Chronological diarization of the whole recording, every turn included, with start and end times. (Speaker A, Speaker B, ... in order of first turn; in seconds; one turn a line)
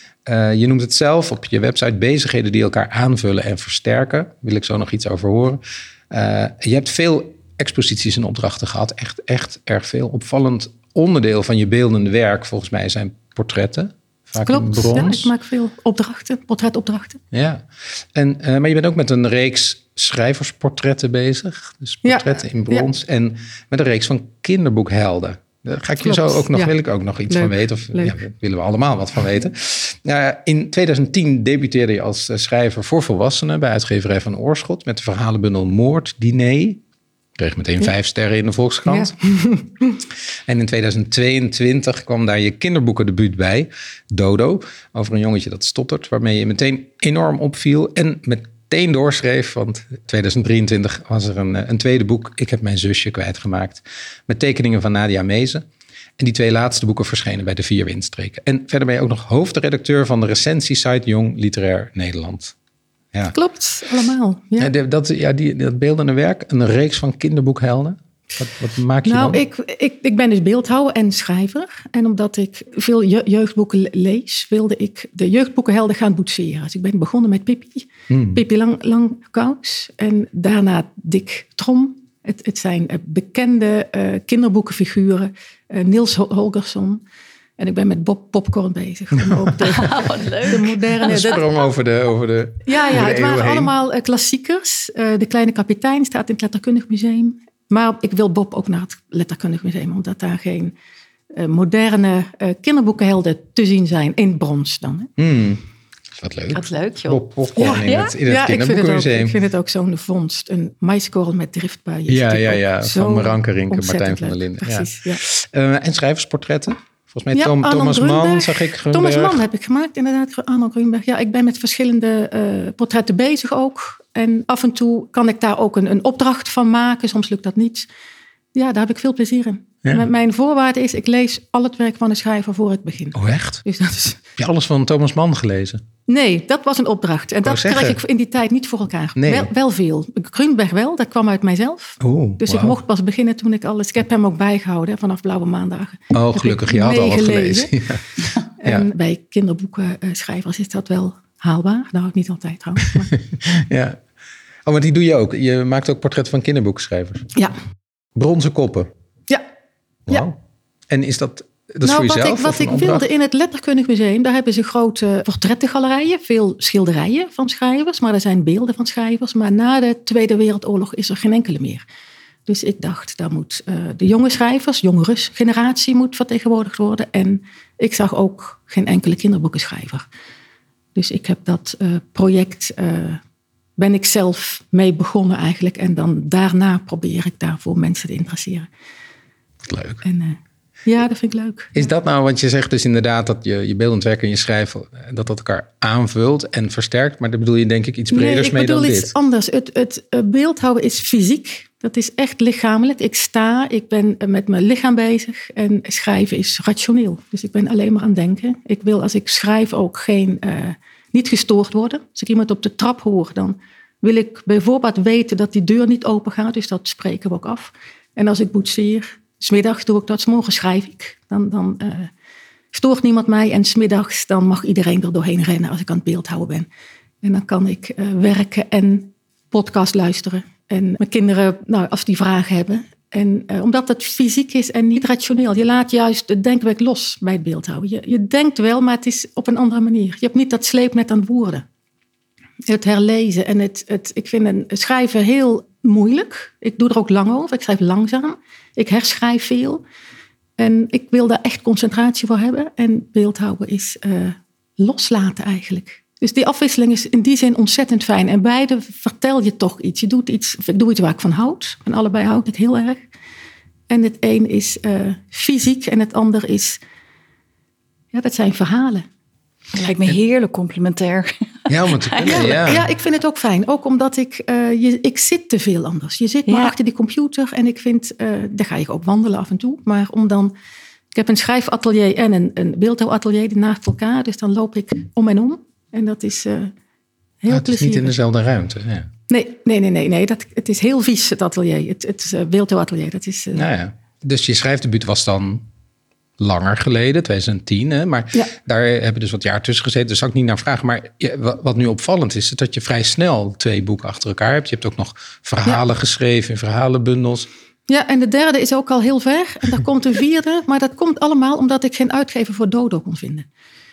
Speaker A: 0.2-15.3
Speaker B: 14.4-17.2
Speaker A: 17.3-36.8
Speaker B: 22.0-22.9
Speaker B: 26.0-26.7
Speaker B: 27.3-28.2
Speaker A: 37.4-39.2
Speaker B: 38.9-40.0
Speaker A: 40.5-55.7
Speaker A: 56.2-62.5
Speaker B: 63.3-64.7
Speaker A: 64.6-69.4
Speaker B: 69.0-87.0
Speaker A: 78.1-78.4
Speaker B: 87.6-91.5
Speaker A: 89.2-89.5
Speaker C: 89.6-91.4
Speaker A: 91.0-93.7
Speaker B: 92.7-100.7
Speaker B: 101.3-105.1
Speaker A: 105.2-105.6
Speaker A: 106.2-109.4
Speaker C: 106.5-107.2
Speaker B: 107.6-115.2
Speaker C: 107.8-108.1
Speaker A: 112.1-119.4
Speaker B: 117.3-127.9
Speaker B: 128.5-134.2
Speaker A: 133.1-133.6
Speaker A: 134.4-135.8
Speaker B: 136.1-147.8
Speaker A: 137.4-138.0
Speaker A: 139.2-139.5
Speaker A: 142.0-142.8
Speaker A: 146.1-148.0
Speaker B: 148.6-153.1
Speaker A: 153.4-154.0
Speaker A: 154.7-157.3
Speaker A: 158.2-158.9
Speaker A: 160.1-160.3
Speaker A: 160.9-163.1
Speaker B: 161.8-171.8
Speaker B: 172.5-180.1
Speaker B: 180.9-183.2
Speaker B: 183.8-188.7
Speaker A: 189.7-190.0
Speaker B: 190.0-191.9
Speaker A: 191.8-199.1
Speaker B: 198.1-222.1
Speaker B: 222.7-226.7
Speaker B: 227.2-241.7
Speaker B: 242.7-249.8
Speaker B: 250.6-263.0
Speaker B: 263.9-266.8
Speaker B: 268.1-269.1
Speaker C: 269.7-272.7
Speaker A: 271.7-272.8
Speaker B: 272.2-280.5
Speaker C: 276.5-276.7
Speaker B: 281.1-286.7
Speaker B: 287.4-288.1
Speaker A: 287.5-289.1
Speaker B: 289.3-293.7
Speaker A: 293.5-295.6
Speaker A: 296.4-307.5
Speaker B: 307.9-313.5